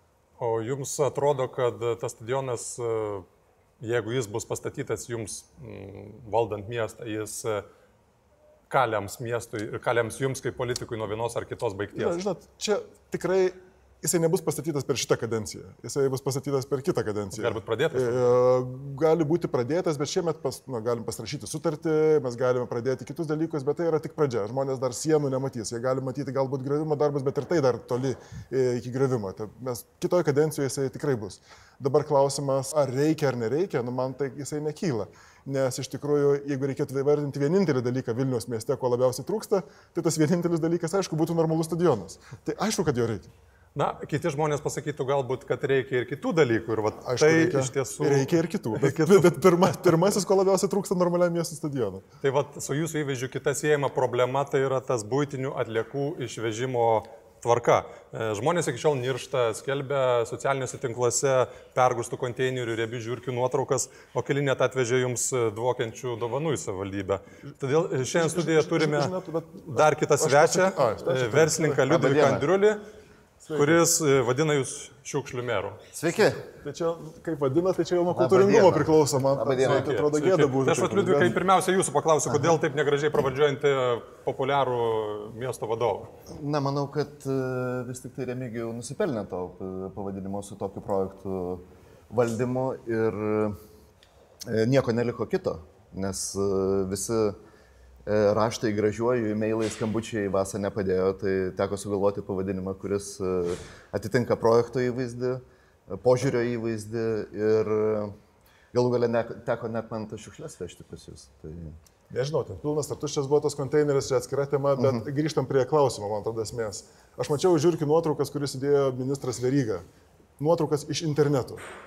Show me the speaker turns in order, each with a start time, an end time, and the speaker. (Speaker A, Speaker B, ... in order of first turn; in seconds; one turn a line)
Speaker A: 0.4-3.2
Speaker A: 3.8-7.6
Speaker A: 8.7-12.2
Speaker B: 11.9-43.3
Speaker A: 17.3-18.3
Speaker A: 43.7-50.0
Speaker B: 47.0-52.0
Speaker A: 52.2-69.1
Speaker B: 68.0-71.9
Speaker A: 69.6-72.8
Speaker C: 71.8-72.4
Speaker B: 73.4-73.8
Speaker A: 73.5-75.8
Speaker C: 75.9-76.5
Speaker B: 76.5-81.4
Speaker C: 78.1-79.9
Speaker A: 79.6-86.1
Speaker C: 82.3-82.6
Speaker C: 86.3-93.5
Speaker C: 94.5-97.3
Speaker C: 98.0-108.1
Speaker C: 108.7-111.7
Speaker B: 112.1-119.8
Speaker C: 114.8-115.0
Speaker B: 120.4-121.6